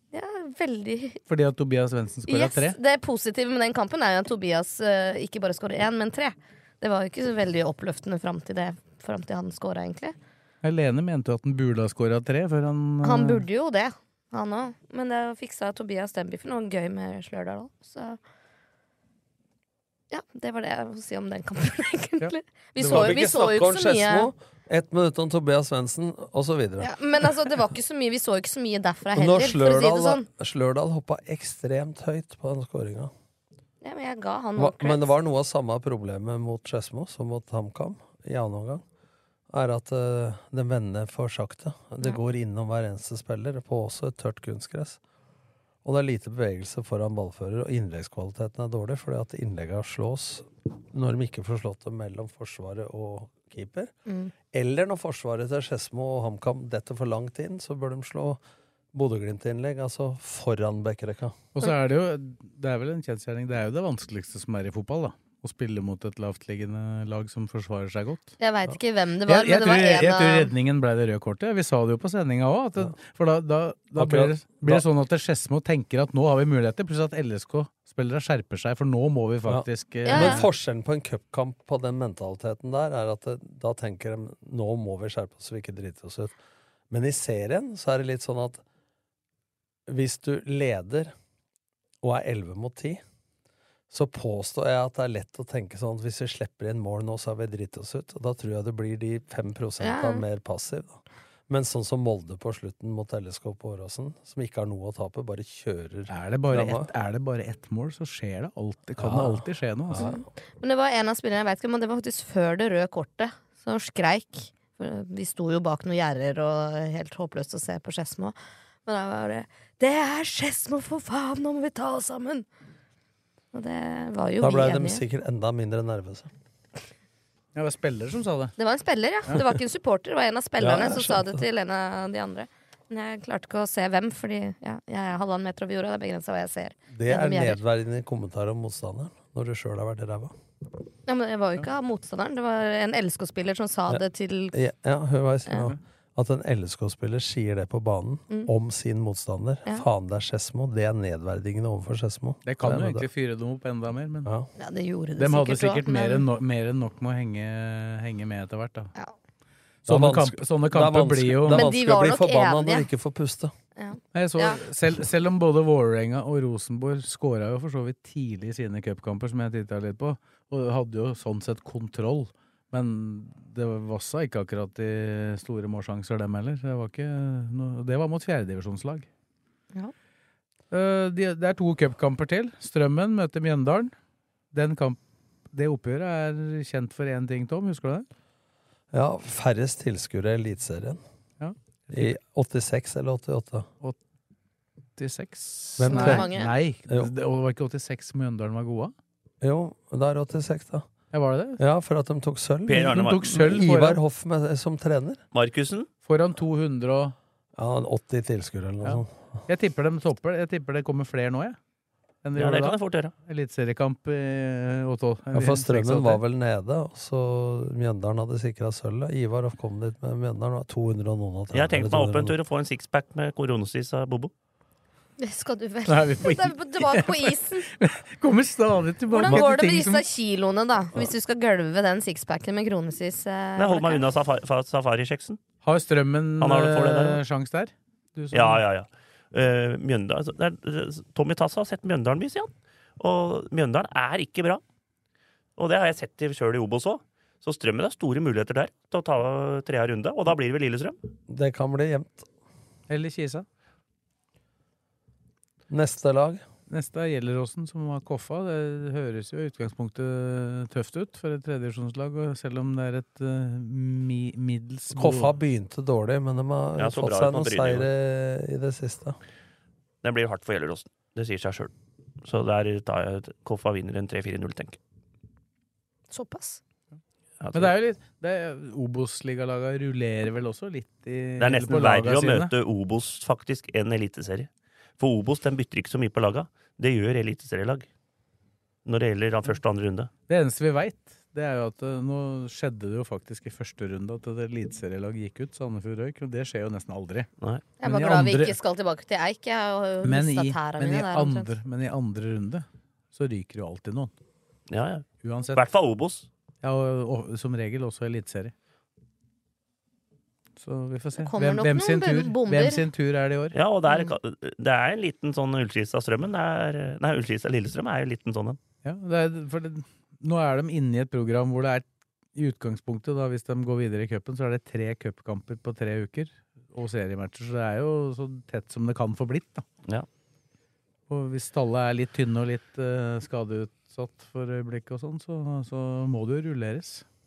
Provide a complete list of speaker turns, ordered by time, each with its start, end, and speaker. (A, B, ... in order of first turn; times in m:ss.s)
0:00.1-0:01.2 A
0:01.3-0:02.8 B
0:02.3-0:10.2 A
0:10.6-0:13.4 B
0:13.0-0:18.2 A
0:20.1-0:24.3 A
0:22.2-0:23.2 B
0:22.9-0:26.9 C
0:26.8-0:30.3 A
0:29.2-0:33.1 C
0:33.8-0:35.1 A
0:34.6-0:38.8 C
0:39.5-0:45.0 C
0:45.8-0:53.9 C
0:54.1-0:54.3 A
0:54.5-0:58.4 C
0:58.9-1:01.4 C
1:01.6-1:08.3 B
1:08.4-1:10.5 A
1:09.3-1:20.5 B
1:14.0-1:14.8 C
1:19.4-1:26.4 C
1:20.0-1:20.5 A
1:26.9-1:28.6 C
1:29.9-1:31.1 C
1:32.0-1:33.0 C
1:33.9-1:46.9 C
1:39.8-1:40.2 A
1:46.1-1:50.1 B
1:49.0-1:50.2 C
1:50.0-2:02.5 A
2:03.5-2:05.0 A
2:04.4-2:06.3 C
2:07.6-2:08.6 B
2:08.6-2:17.6 A
2:10.6-2:11.4 C
2:16.9-2:20.4 C
2:21.1-2:24.6 A
2:23.9-2:33.1 C
2:25.5-2:25.7 A
2:32.5-2:34.3 B
2:34.6-2:36.3 A
2:35.2-2:38.9 B
2:39.9-2:41.7 B
2:39.9-2:43.5 C
2:41.5-2:42.9 A
2:43.8-2:44.6 A
2:44.1-2:59.1 B
3:00.7-3:03.9 B
3:04.5-3:05.0 B
3:05.5-3:08.1 B
3:08.9-3:11.0 C
3:11.4-3:12.2 B
3:11.9-3:13.7 C
3:15.0-3:18.9 B
3:15.8-3:17.1 C
3:15.9-3:16.5 A
3:19.4-3:20.9 C
3:21.1-3:21.6 B
3:21.6-3:25.2 C
3:22.7-3:23.4 D
3:22.8-3:24.0 B
3:25.3-3:25.9 D
3:26.0-3:27.2 B
3:27.6-3:29.4 C
3:28.8-3:31.6 B
3:32.2-3:36.2 B
3:32.4-3:33.1 D
3:35.3-3:42.4 C
3:41.5-3:44.3 D
3:45.2-3:47.7 A
3:45.9-3:50.0 B
3:49.1-3:54.0 A
3:53.6-3:55.4 D
3:55.6-3:58.6 B
3:56.4-3:57.2 D
3:58.3-4:04.6 D
4:05.6-4:11.0 D
4:11.3-4:12.3 C
4:12.9-4:13.5 B
4:15.7-4:16.4 C
4:16.7-4:25.3 B
4:24.9-4:29.2 C
4:26.8-4:27.9 D
4:30.0-4:31.7 D
4:32.2-4:34.8 D
4:36.1-4:36.6 A
4:37.4-4:37.7 D
4:37.5-4:42.5 B
4:41.4-4:47.9 D
4:48.9-4:50.1 D
4:50.3-4:57.3 B
4:57.8-5:01.5 A
4:57.8-4:58.6 B
5:00.0-5:04.1 B
5:04.7-5:06.3 D
5:05.2-5:05.6 B
5:06.6-5:08.5 B
5:10.6-5:13.6 B
5:11.2-5:12.8 A
5:13.5-5:18.6 D
5:13.9-5:14.1 A
5:18.8-5:29.6 B
5:31.1-5:37.0 B